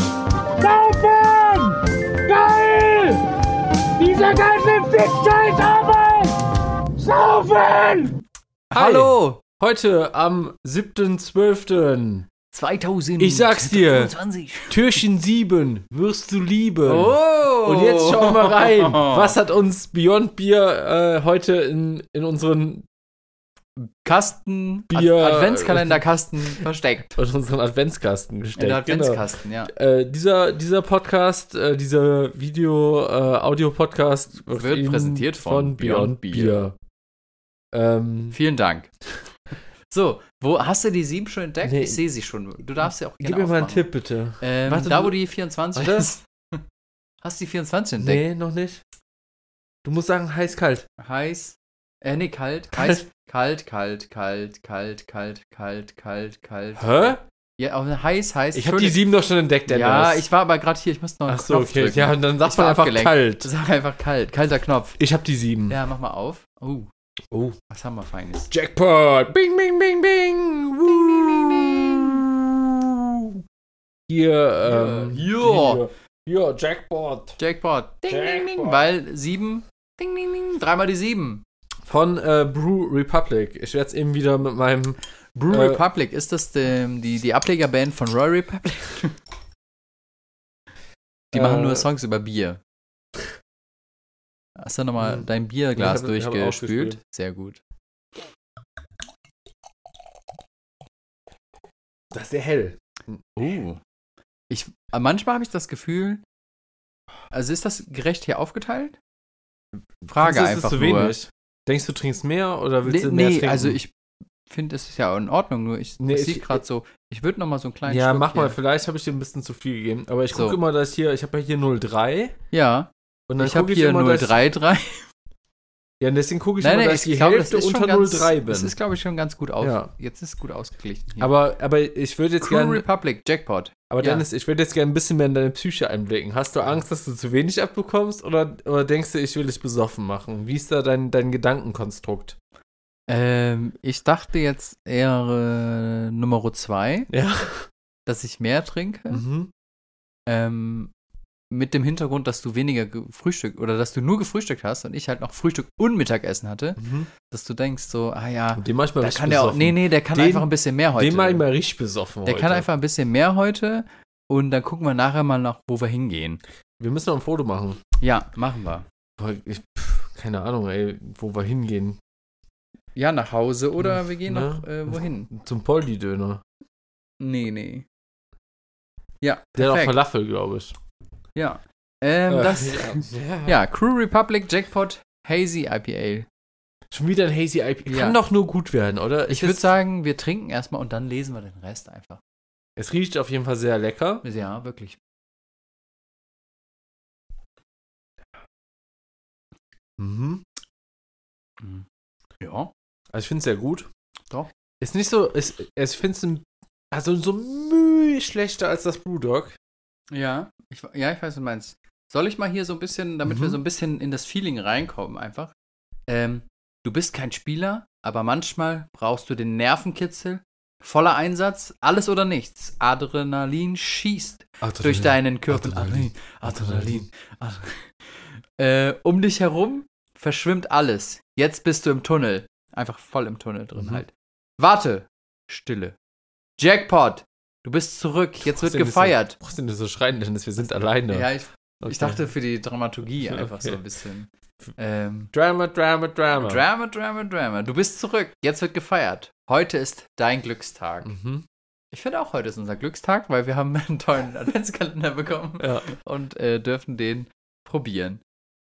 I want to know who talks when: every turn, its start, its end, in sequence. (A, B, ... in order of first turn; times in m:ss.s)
0:00.6-0:03.2 A
0:04.0-0:06.4 A
0:07.0-0:08.1 A
0:08.7-0:09.4 B
0:08.7-0:12.3 C
0:12.5-0:15.0 B
0:13.2-0:14.1 C
0:14.7-0:22.8 C
0:16.8-0:19.4 B
0:23.8-0:27.2 B
0:24.9-0:26.6 C
0:27.2-0:36.7 C
0:28.6-0:29.7 B
0:34.5-0:36.6 B
0:37.7-0:38.4 C
0:38.3-0:38.9 B
0:39.9-0:43.9 B
0:41.6-0:42.0 C
0:42.8-0:45.2 C
0:44.4-0:46.6 B
0:45.7-0:46.1 C
0:47.2-0:48.2 B
0:48.0-0:48.8 C
0:49.8-0:50.8 C
0:51.0-0:59.0 B
0:52.7-0:53.0 C
0:56.8-0:57.2 C
0:58.5-1:00.2 C
0:59.7-1:05.0 B
1:01.3-1:03.5 C
1:05.0-1:05.8 C
1:05.7-1:06.9 B
1:07.3-1:07.6 C
1:07.7-1:08.5 B
1:08.5-1:13.3 C
1:10.9-1:12.1 B
1:14.1-1:17.4 C
1:14.6-1:15.8 B
1:17.4-1:21.4 B
1:18.1-1:18.9 C
1:21.8-1:25.8 C
1:25.4-1:29.1 B
1:31.3-1:32.6 B
1:31.3-1:31.8 C
1:34.6-1:37.6 B
1:35.0-1:37.0 C
1:42.1-1:42.8 C
1:43.4-1:43.8 B
1:44.5-1:46.2 B
1:47.3-1:49.0 B
1:50.1-1:51.2 B
1:50.1-1:53.8 C
1:52.8-1:53.9 B
1:54.5-1:58.6 B
1:56.0-1:56.6 C
1:57.8-2:02.3 C
2:00.3-2:00.6 B
2:02.5-2:05.0 B
2:03.3-2:04.4 C
2:06.0-2:08.7 C
2:06.6-2:11.3 B
2:09.6-2:09.9 C
2:11.2-2:12.8 C
2:12.4-2:14.2 B
2:13.9-2:22.4 C
2:23.1-2:27.1 B
2:27.1-2:27.7 C
2:28.0-2:29.2 B
2:29.1-2:29.5 C
2:30.3-2:30.9 B
2:31.5-2:41.4 B
2:36.8-2:37.1 C
2:38.5-2:42.6 C
2:42.2-2:46.4 B
2:46.8-2:47.8 C
2:48.0-2:48.8 B
2:49.2-2:52.0 C
2:53.0-2:55.3 B
2:53.8-2:56.4 C
2:57.2-2:57.8 B
2:59.2-3:00.0 B
2:59.6-3:00.7 C
3:01.4-3:06.2 B
3:02.3-3:03.6 C
3:06.9-3:09.7 C
3:07.8-3:08.2 B
3:09.3-3:12.2 B
3:12.8-3:14.2 C
3:14.2-3:15.0 B
3:20.0-3:20.4 C
3:21.6-3:21.8 B
3:22.4-3:22.7 B
3:23.1-3:23.9 C
3:24.8-3:29.6 C
3:30.1-3:35.5 B
3:33.2-3:33.6 C
3:36.1-3:56.0 B
3:44.6-3:47.0 C
3:53.7-3:54.0 C
3:56.6-3:59.4 B
3:58.4-4:01.3 C
4:01.1-4:05.3 B
4:01.8-4:02.2 C
4:03.2-4:03.8 C
4:05.3-4:06.6 C
4:06.3-4:11.1 B
4:11.0-4:11.4 C
4:11.9-4:18.2 B
4:15.6-4:15.8 C